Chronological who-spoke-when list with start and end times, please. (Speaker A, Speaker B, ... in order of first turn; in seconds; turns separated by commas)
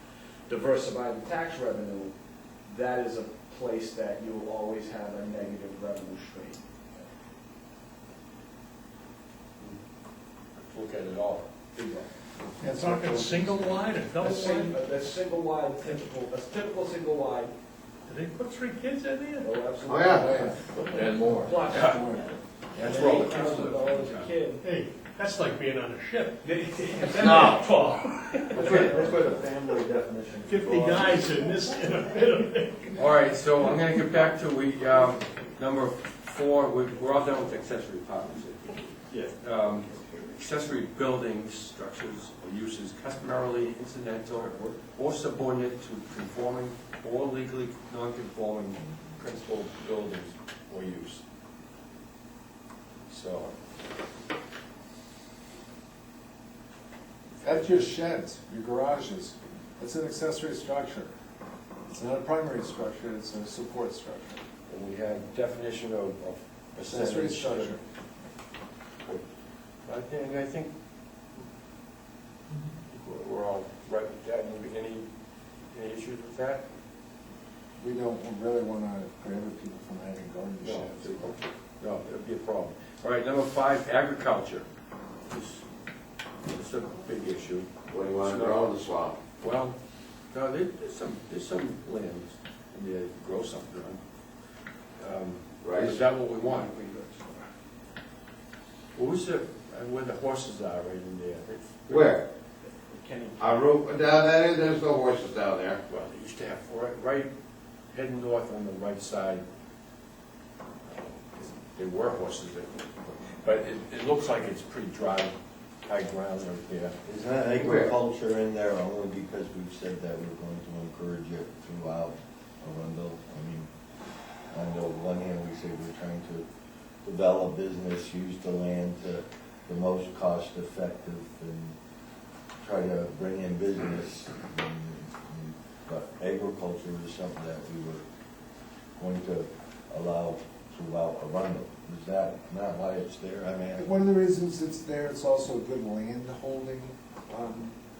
Speaker A: 0.5-2.1, Speaker A: 2.6-7.0, Speaker B: 10.6-12.0, Speaker C: 12.6-13.8, Speaker D: 12.6-14.8, Speaker A: 14.2-17.5, Speaker D: 18.1-19.5, Speaker A: 19.4-24.6, Speaker E: 19.9-20.3, Speaker C: 20.2-20.6, Speaker F: 20.9-21.5, Speaker B: 21.7-22.0, Speaker B: 22.7-23.9, Speaker D: 24.6-29.1, Speaker A: 26.4-29.5, Speaker F: 27.2-27.6, Speaker F: 28.5-31.1, Speaker D: 30.4-33.1, Speaker B: 32.9-51.2, Speaker B: 53.1-53.5, Speaker C: 57.4-61.1, Speaker B: 57.5-57.8, Speaker C: 61.9-64.4, Speaker B: 64.7-67.8, Speaker C: 66.8-67.8, Speaker B: 69.8-70.7, Speaker B: 72.9-75.1, Speaker B: 75.7-76.6, Speaker C: 77.8-81.3, Speaker B: 80.6-84.7, Speaker B: 85.3-85.7, Speaker B: 86.4-88.6, Speaker E: 87.9-89.2, Speaker B: 89.4-89.8, Speaker B: 90.3-94.0, Speaker B: 95.0-96.7, Speaker E: 95.6-96.0, Speaker A: 96.4-97.5, Speaker B: 98.9-102.2, Speaker E: 101.9-102.2, Speaker A: 102.6-103.6, Speaker E: 103.4-105.8, Speaker B: 105.9-107.3, Speaker B: 107.9-109.4, Speaker B: 110.8-115.3, Speaker B: 115.9-117.0, Speaker F: 117.0-123.7, Speaker E: 117.6-117.9, Speaker F: 124.5-126.4, Speaker F: 127.0-131.8, Speaker F: 132.6-138.0, Speaker F: 138.9-143.8, Speaker C: 143.8-147.8